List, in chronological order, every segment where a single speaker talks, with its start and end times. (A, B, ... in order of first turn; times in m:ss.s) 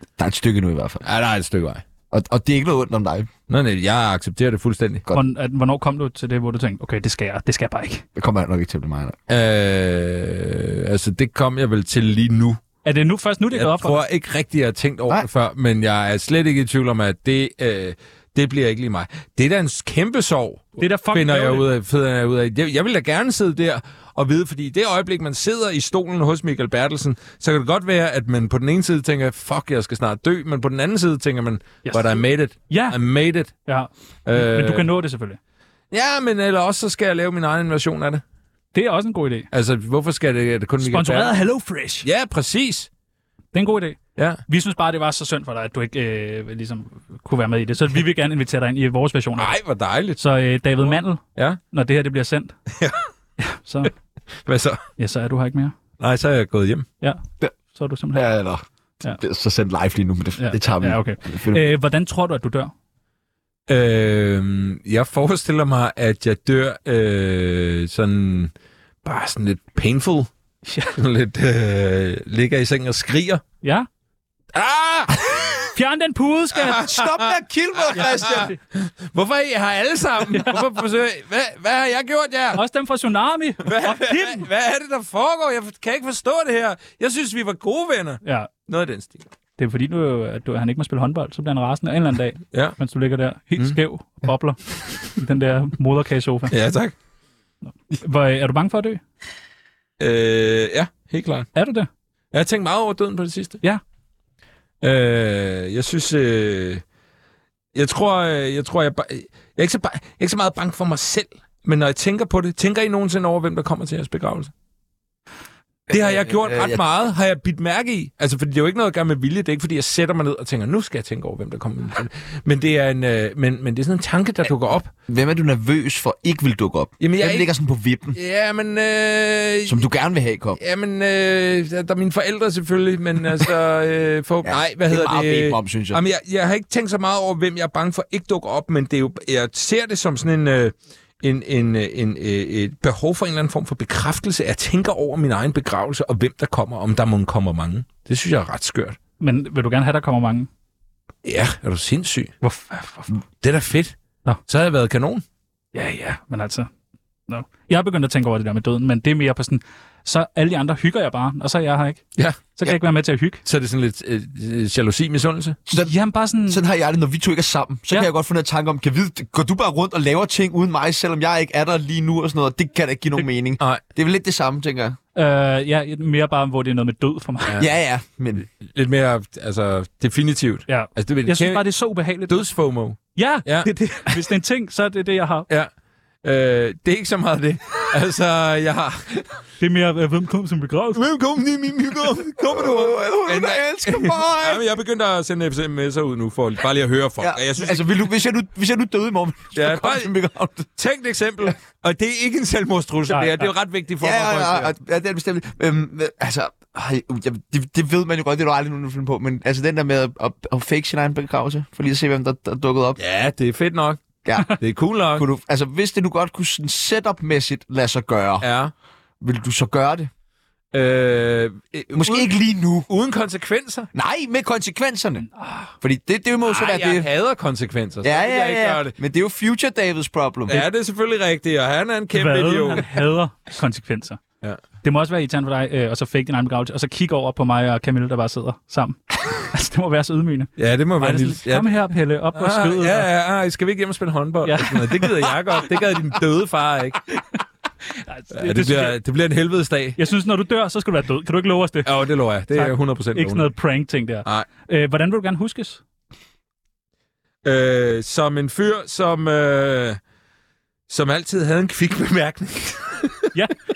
0:00.2-0:01.0 A
0:01.0-0:01.8 B
0:02.1-0:03.3 A
0:03.5-0:05.0 B
0:05.1-0:08.0 C
0:08.2-0:09.2 A
0:09.3-0:12.6 B
0:12.8-0:14.0 C
0:13.5-0:33.5 B
0:20.8-0:21.7 C
0:31.8-0:33.0 C
0:33.6-0:35.4 C
0:34.2-0:34.9 B
0:35.9-0:38.2 B
0:38.7-0:39.5 C
0:39.5-0:41.4 B
0:40.8-0:42.1 C
0:42.0-0:42.9 B
0:43.5-0:49.5 C
0:44.2-0:44.4 B
0:49.4-0:50.2 B
0:50.2-0:52.6 C
0:50.8-0:51.6 B
0:52.7-0:53.0 B
0:53.4-0:53.9 C
0:54.4-0:54.8 B
0:55.0-0:55.7 C
0:56.0-0:56.9 B
0:57.7-0:58.2 C
0:58.1-1:01.7 A
1:00.4-1:02.7 C
1:03.7-1:08.5 B
1:09.0-1:10.3 B
1:10.6-1:11.0 C
1:10.9-1:13.4 B
1:13.6-1:13.9 C
1:14.5-1:15.7 B
1:15.7-1:16.9 C
1:16.5-1:22.6 B
1:16.8-1:18.5 A
1:18.1-1:18.5 C
1:20.3-1:20.6 C
1:22.5-1:24.4 C
1:23.6-1:29.3 B
1:28.2-1:28.5 C
1:29.6-1:36.5 C
1:36.5-1:36.9 B
1:37.6-1:39.0 C
1:40.0-1:41.5 B
1:41.5-1:41.9 C
1:42.3-1:43.6 B
1:44.8-1:46.8 B
1:47.7-1:54.5 B
1:55.9-1:56.8 A
1:55.9-2:04.9 B
2:05.1-2:08.2 A
2:07.0-2:07.5 B
2:08.1-2:09.9 B
2:09.6-2:10.6 A
2:10.6-2:29.0 B
2:14.4-2:16.0 A
2:29.2-2:30.5 C
2:31.2-2:32.3 B
2:32.4-2:33.2 C
2:33.4-2:35.2 B
2:35.7-2:36.7 C
2:37.3-2:42.0 C
2:42.2-2:42.8 B
2:42.6-2:43.4 C
2:43.4-2:45.6 B
2:45.7-2:45.9 A
2:45.8-2:46.6 C
2:46.4-2:55.0 A
2:55.1-2:57.6 C
2:57.6-2:58.4 A
2:58.5-3:01.7 B
3:00.7-3:02.4 C
3:02.3-3:04.2 B
3:03.1-3:05.5 C
3:06.2-3:09.2 B
3:09.6-3:11.0 C
3:10.9-3:18.0 B
3:12.3-3:14.6 A
3:17.2-3:20.7 A
3:19.5-3:20.1 B
3:20.7-3:24.7 B
3:23.1-3:23.5 C
3:24.0-3:33.0 A
3:33.0-3:35.2 B
3:34.2-3:34.6 A
3:35.1-3:38.5 A
3:38.4-3:38.7 B
3:39.2-3:40.1 A
3:40.7-3:42.3 B
3:41.9-3:42.9 A
3:42.9-3:43.9 B
3:43.9-3:45.2 A
3:45.2-3:45.7 C
3:45.8-3:47.1 A
3:46.4-3:48.9 B
3:48.0-3:50.6 A
3:50.5-3:53.1 B
3:52.1-3:54.2 C
3:54.8-4:03.1 C
4:00.6-4:01.8 B
4:02.3-4:07.0 B
4:04.4-4:05.3 C
4:08.0-4:09.0 C
4:08.3-4:10.0 B
4:10.0-4:12.0 C
4:11.8-4:13.5 B
4:12.5-4:15.8 C
4:17.4-4:20.0 B
4:20.9-4:23.3 B